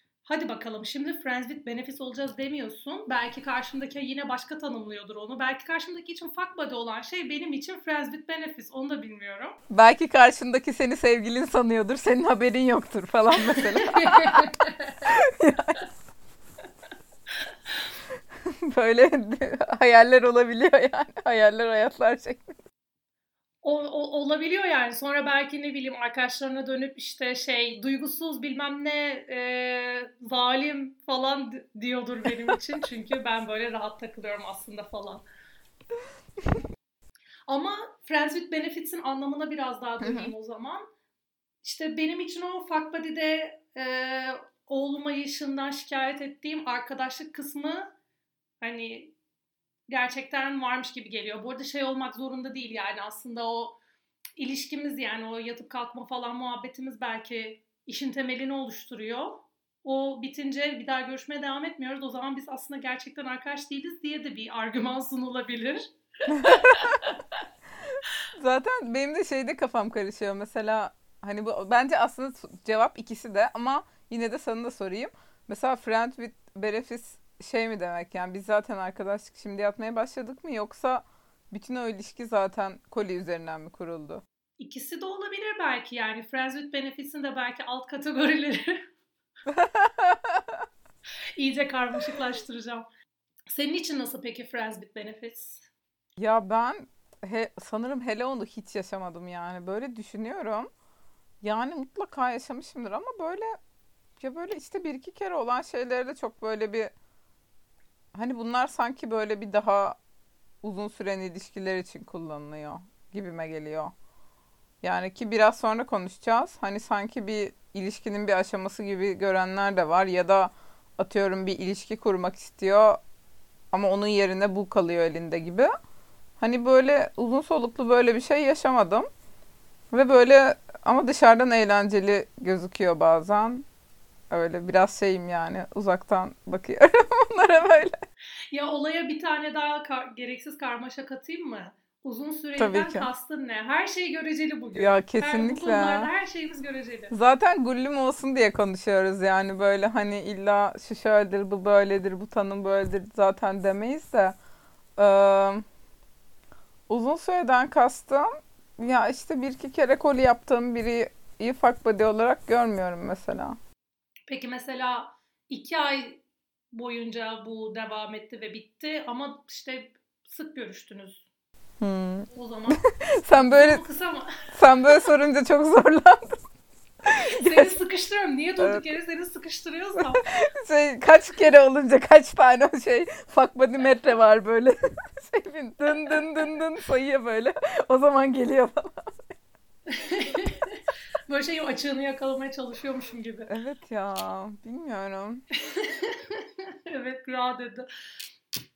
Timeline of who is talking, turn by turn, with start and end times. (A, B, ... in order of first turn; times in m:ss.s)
0:00.2-0:09.6 A
0:09.7-0:15.8 B
0:13.4-0:15.1 A
0:18.6-0:22.6 B
0:23.6-0:35.2 A
0:37.5-0:40.9 A
0:40.0-0:40.3 B
0:41.6-0:47.9 A
0:48.6-0:49.1 A
0:49.9-0:53.8 A
0:54.4-1:07.2 A
1:06.3-1:07.0 B
1:07.9-1:24.2 B
1:24.6-1:28.9 A
1:29.5-1:30.5 B
1:31.4-1:32.9 A
1:33.5-1:35.7 A
1:36.2-1:40.7 B
1:41.4-1:43.6 B
1:44.2-1:46.9 B
1:48.1-1:50.0 B
1:50.6-1:53.9 B
1:54.8-2:03.0 B
2:03.7-2:05.7 B
2:06.4-2:09.1 B
2:09.9-2:13.6 B
2:14.3-2:18.0 B
2:18.5-2:27.1 A
2:22.6-2:23.1 B
2:24.8-2:26.1 B
2:27.1-2:34.4 B
2:35.0-2:35.6 B
2:36.9-2:43.6 B
2:44.3-2:51.2 A
2:51.8-2:53.8 B
2:52.3-2:54.4 A
2:54.5-2:56.4 B
2:57.0-2:57.8 B
2:57.4-3:00.3 A
2:58.6-2:58.8 B
3:00.2-3:09.1 B
3:09.9-3:13.5 A
3:13.5-3:15.4 B
3:15.6-3:17.9 A